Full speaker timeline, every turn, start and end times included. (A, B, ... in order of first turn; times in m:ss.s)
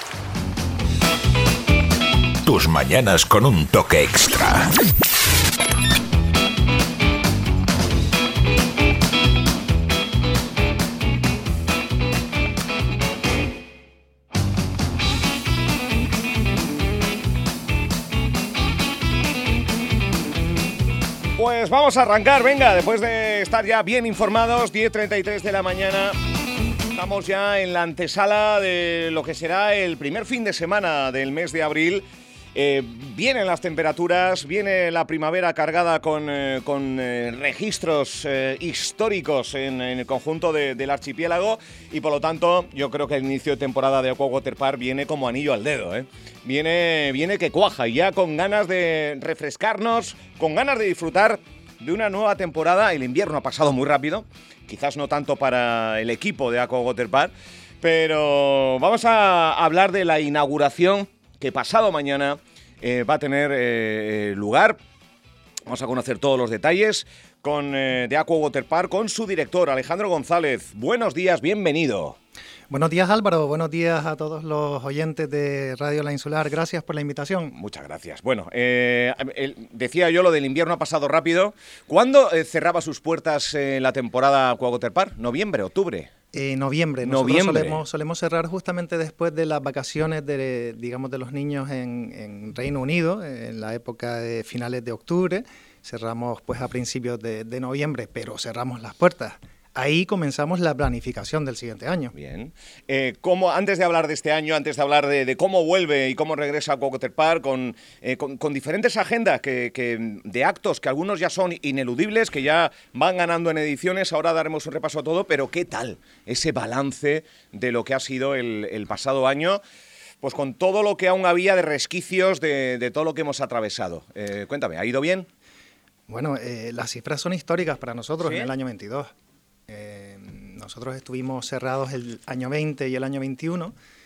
0:02.4-0:04.7 A
0:21.4-0:26.2 B
0:26.9-1:04.8 B
1:05.7-1:12.2 B
1:12.7-1:17.6 C
1:17.5-1:26.1 B
1:26.3-1:42.1 C
1:27.0-1:27.8 B
1:42.1-1:59.6 B
2:00.2-2:05.3 B
2:06.1-2:09.1 C
2:08.2-2:08.5 B
2:09.7-2:13.8 C